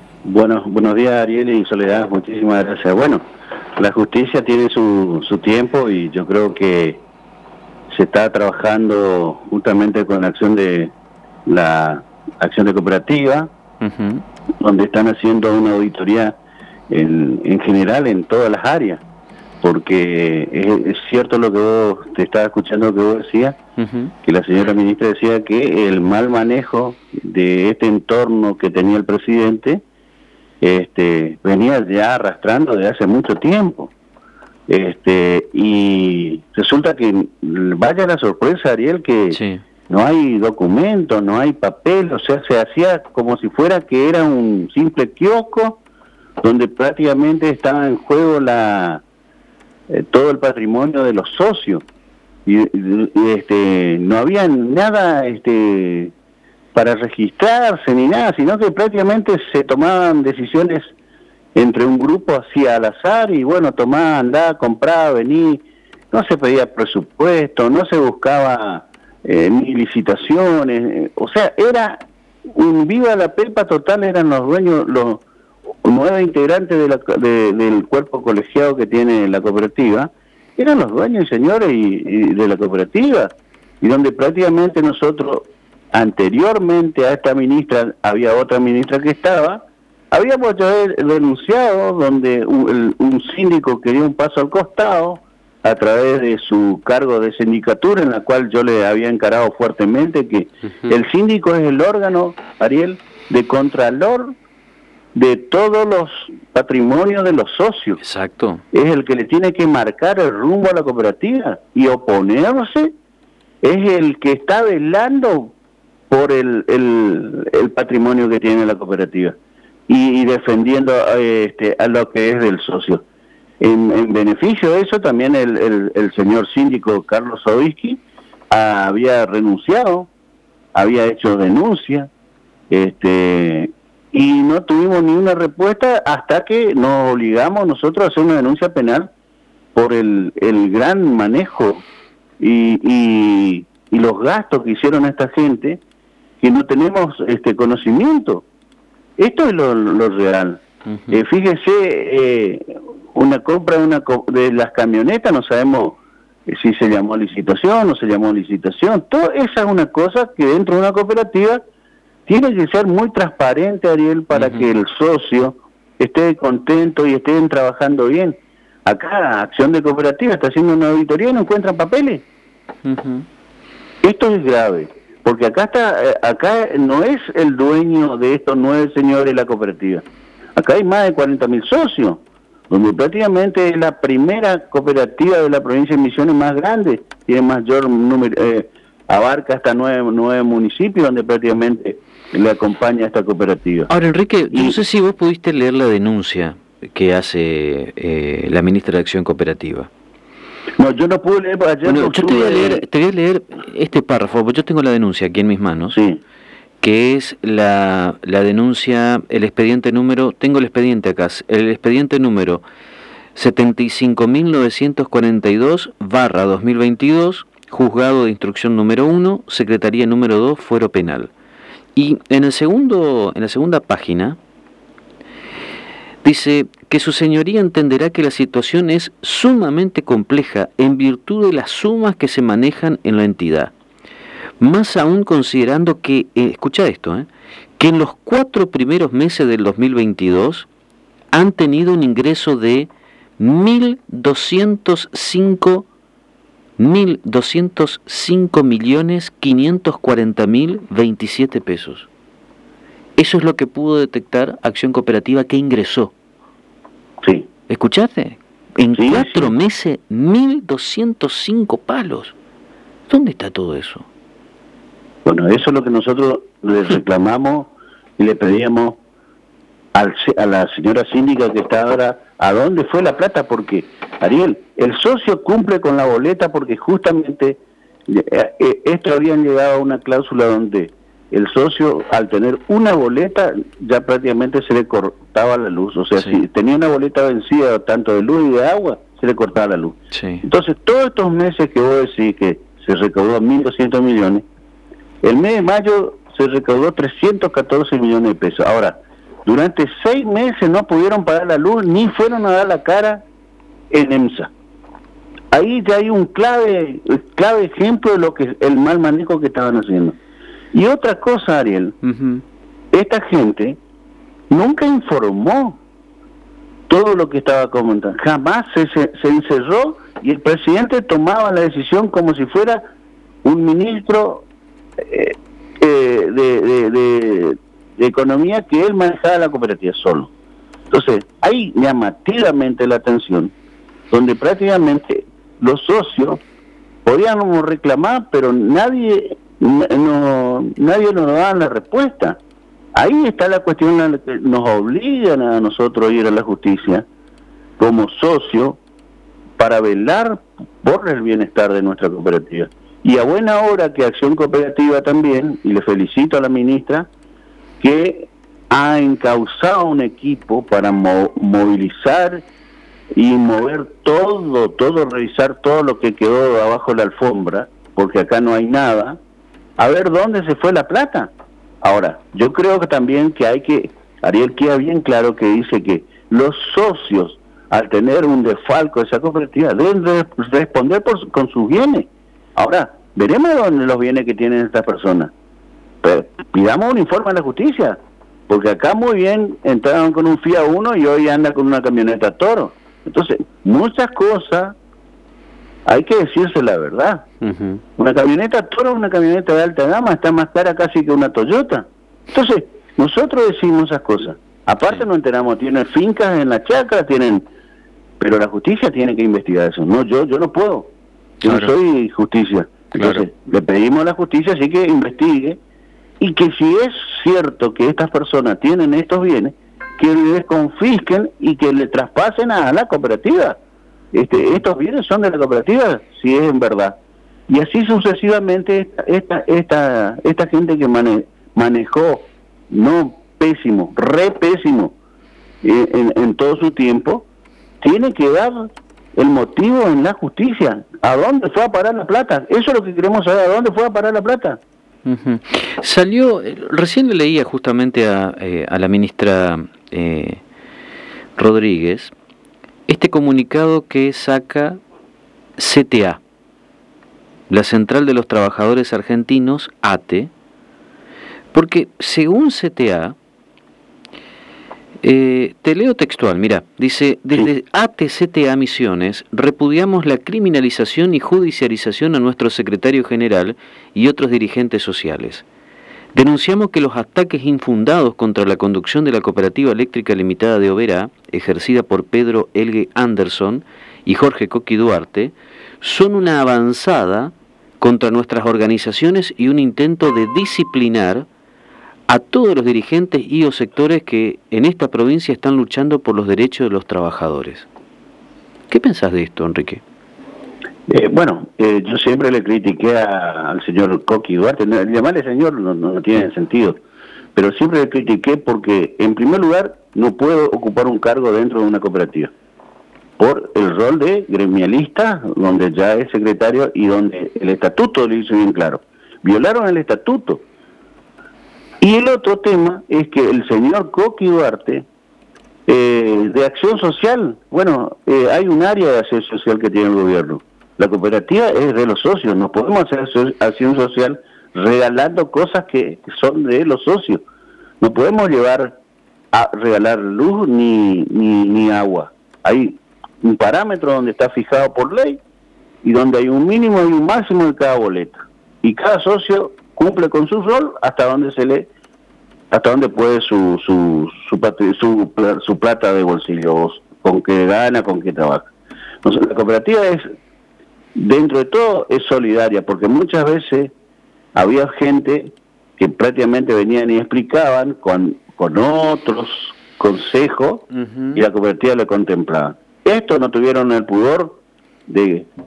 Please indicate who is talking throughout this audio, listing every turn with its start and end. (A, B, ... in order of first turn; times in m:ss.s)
0:00.2-0:03.2 A
0:03.8-0:07.0 A
0:07.9-0:10.9 A
0:11.5-0:13.5 A
0:13.8-0:14.2 B
0:14.6-0:16.4 A
0:16.9-0:19.0 A
0:19.6-0:23.6 A
0:23.8-0:24.1 B
0:24.2-0:29.8 A
0:30.6-0:33.9 A
0:34.7-0:45.8 A
0:39.3-0:39.6 B
0:46.4-0:49.0 A
0:49.9-0:51.8 A
0:52.4-0:56.1 A
0:56.7-1:00.9 A
1:01.6-1:12.0 A
1:12.5-1:15.2 A
1:15.8-1:44.3 A
1:45.1-1:48.0 A
1:48.0-1:48.6 B
1:48.7-1:52.9 A
1:53.6-1:55.5 A
1:56.1-1:59.3 A
1:59.9-2:03.0 A
2:03.6-2:10.1 A
2:10.8-2:12.1 A
2:12.7-2:19.1 A
2:19.8-2:21.8 A
2:22.4-2:25.8 A
2:26.4-2:28.4 A
2:29.2-2:41.6 A
2:30.9-2:31.2 B
2:42.3-2:52.2 A
2:44.3-2:44.6 B
2:52.8-2:53.2 B
2:54.0-3:00.0 A
3:00.6-3:13.9 A
3:13.9-3:19.9 B
3:14.5-3:14.8 A
3:20.8-3:22.8 A
3:21.9-3:26.0 B
3:25.9-3:26.2 A
3:26.8-3:32.6 B
3:33.3-3:41.3 B
3:42.0-3:44.4 B
3:46.2-3:53.7 B
3:54.6-4:00.7 B
4:01.3-4:05.9 B
4:06.8-4:12.1 B
4:13.2-4:16.1 B
4:17.2-4:17.5 A
4:17.7-4:22.3 B
4:18.9-4:19.5 A
4:23.1-4:24.1 B
4:25.2-4:29.0 A
4:29.9-4:54.4 A
4:50.1-4:50.4 B
4:55.2-5:03.2 A
5:03.9-5:04.5 A
5:05.5-5:10.2 A
5:10.7-5:12.0 A
5:12.0-5:12.4 B
5:12.9-5:13.8 A
5:14.5-5:15.8 A
5:16.9-5:22.8 A
5:23.4-5:24.4 A
5:25.0-5:30.3 A
5:30.9-5:33.5 A
5:34.1-5:36.4 A
5:37.1-5:42.4 A
5:42.9-5:47.0 A
5:47.8-5:48.8 A
5:49.6-5:57.1 A
5:57.8-6:02.4 A
6:03.1-6:09.2 A
6:09.8-6:11.3 A
6:11.8-6:25.3 A
6:26.0-6:34.8 A
6:35.9-6:37.2 A
6:37.4-6:37.8 B
6:38.0-6:47.4 A
6:48.2-6:50.9 A
6:51.4-6:51.7 B
6:51.4-6:55.6 A
6:52.9-6:53.2 B
6:56.2-7:03.6 A
7:04.1-7:07.0 A
7:07.5-7:14.9 A
7:15.6-7:17.2 A
7:17.8-7:24.6 A
7:25.1-7:30.4 B
7:31.4-7:32.1 B
7:32.9-7:34.8 B
7:35.6-7:36.2 B
7:37.5-7:40.3 B
7:41.5-7:43.1 B
7:45.0-7:55.4 B
7:56.1-8:11.3 B
8:12.1-8:17.7 B
8:18.7-8:19.8 B
8:20.9-8:26.8 A
8:27.3-8:32.3 A
8:33.2-8:40.4 A
8:41.8-8:44.9 A
8:45.7-8:57.2 A
8:57.8-8:58.8 A
8:59.3-9:05.2 A
9:05.8-9:11.7 A
9:12.5-9:18.5 A
9:19.0-9:20.1 A
9:21.0-9:23.7 A
9:24.4-9:35.3 A
9:30.7-9:31.2 B